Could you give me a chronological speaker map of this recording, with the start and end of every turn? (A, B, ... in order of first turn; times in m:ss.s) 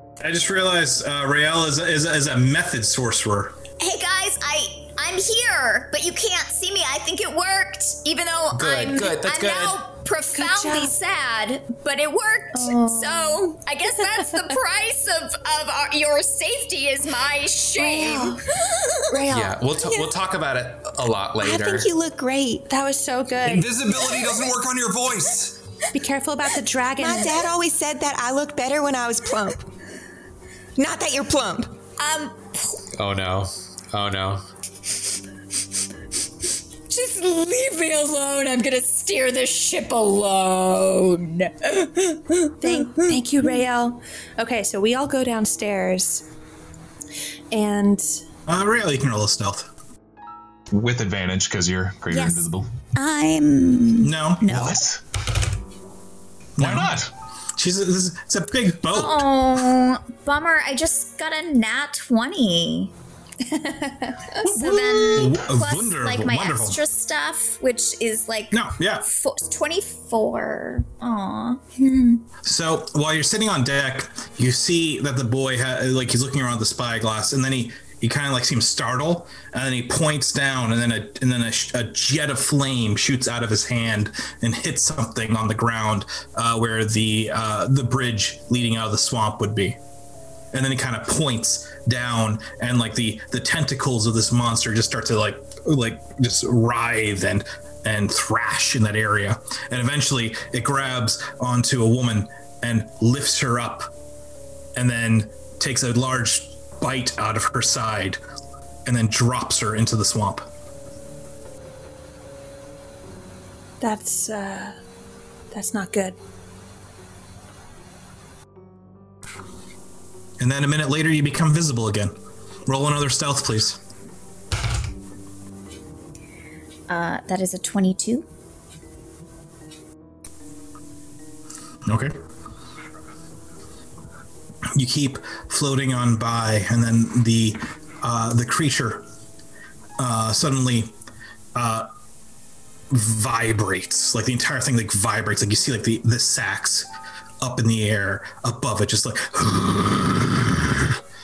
0:00.2-0:03.6 A
0:03.8-0:18.4 B
0:08.5-0:09.8 C
0:10.3-0:10.9 D
0:12.5-0:13.4 D
0:17.8-0:18.4 D
0:19.1-0:19.5 D
0:19.3-0:21.9 C
0:21.4-0:22.7 E
0:22.7-0:23.7 D
0:23.4-0:25.6 F
0:25.9-0:27.4 D
0:27.0-0:29.7 E
0:30.8-0:31.7 E
0:32.0-0:32.8 B
0:33.0-0:34.4 C
0:36.9-0:42.9 B
0:42.6-0:46.2 D
0:47.5-0:48.2 D
0:48.5-0:49.7 A
0:50.7-0:52.7 G
0:52.1-0:54.8 B
0:54.0-0:54.7 A
0:54.5-0:55.0 G
0:56.6-0:57.0 A
0:56.6-0:57.1 G
0:57.6-0:59.3 A
0:58.9-1:02.9 B
1:03.5-1:04.2 D
1:04.4-1:12.2 B
1:04.4-1:06.8 A
1:08.5-1:09.1 A
1:12.4-1:29.8 A
1:30.5-1:43.9 A
1:44.7-1:48.2 A
1:48.8-1:50.5 A
1:53.8-1:54.8 D
1:55.5-1:56.2 D
2:00.4-2:02.1 A
2:02.7-2:03.8 A
2:06.9-2:08.2 B
2:11.8-2:12.1 A
2:14.7-2:19.0 A
2:20.0-2:20.9 A
2:21.5-2:21.9 A
2:22.9-2:26.9 A
2:27.4-2:31.0 A